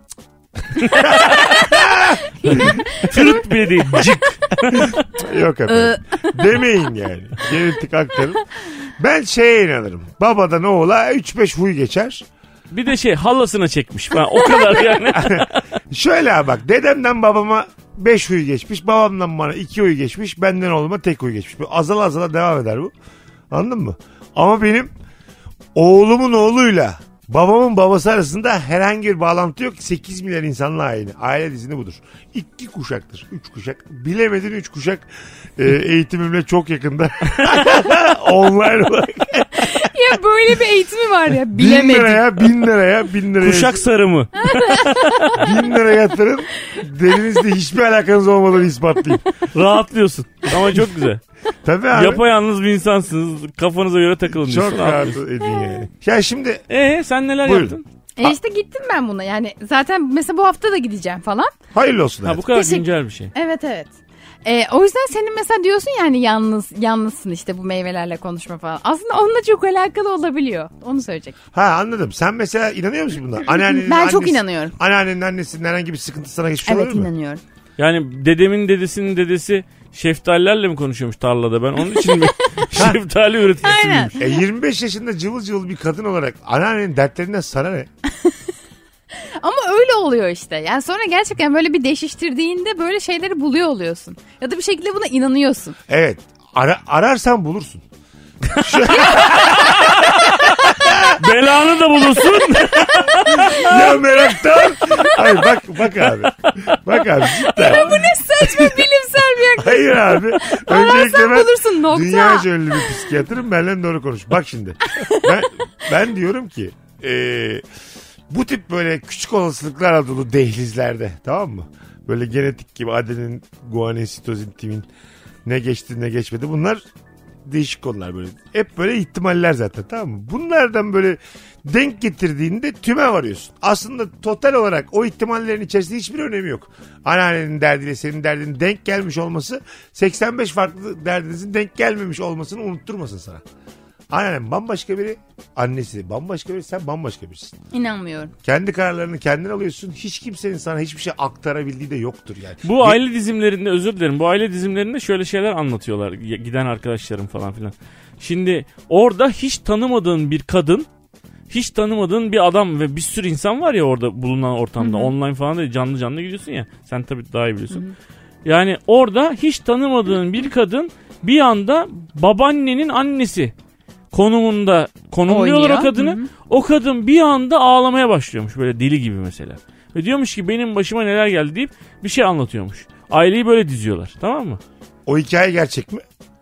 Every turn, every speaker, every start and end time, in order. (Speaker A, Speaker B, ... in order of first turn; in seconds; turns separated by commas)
Speaker A: 0.8-2.9, Speaker B: 2.3-4.0, Speaker C: 2.5-5.0, Speaker A: 4.8-8.4, Speaker B: 5.7-6.4, Speaker A: 9.0-12.2, Speaker C: 12.7-15.6, Speaker A: 15.2-22.9, Speaker A: 23.5-24.9, Speaker A: 25.8-35.1, Speaker A: 35.6-39.7, Speaker B: 39.6-42.3, Speaker A: 41.5-43.8, Speaker C: 43.4-45.4, Speaker B: 44.4-45.6, Speaker A: 45.3-49.2, Speaker C: 49.5-51.2, Speaker A: 51.6-52.2, Speaker C: 51.9-55.2, Speaker A: 54.3-56.7, Speaker C: 56.7-57.8, Speaker A: 57.4-58.4, Speaker B: 58.2-61.5, Speaker A: 61.7-62.5, Speaker C: 62.2-63.3, Speaker B: 62.5-63.9, Speaker B: 64.5-71.3, Speaker A: 71.5-77.1, Speaker B: 73.5-74.8, Speaker B: 76.7-77.4, Speaker C: 77.8-84.1, Speaker A: 82.7-83.0, Speaker B: 83.6-84.2, Speaker A: 84.2-87.9, Speaker B: 89.4-95.8, Speaker A: 95.9-97.8, Speaker A: 98.6-101.2, Speaker C: 101.2-103.6, Speaker B: 102.9-104.0, Speaker A: 103.3-108.0, Speaker B: 107.5-112.8, Speaker A: 108.5-108.8, Speaker A: 109.6-117.6, Speaker A: 118.3-124.9, Speaker A: 125.5-126.8, Speaker A: 127.5-143.4, Speaker A: 144.1-147.6, Speaker B: 147.7-148.3, Speaker A: 148.4-153.0, Speaker C: 152.6-160.9, Speaker C: 161.5-167.8, Speaker B: 164.8-165.1, Speaker C: 168.4-173.5, Speaker C: 174.1-184.6, Speaker B: 175.3-176.3, Speaker A: 185.1-186.0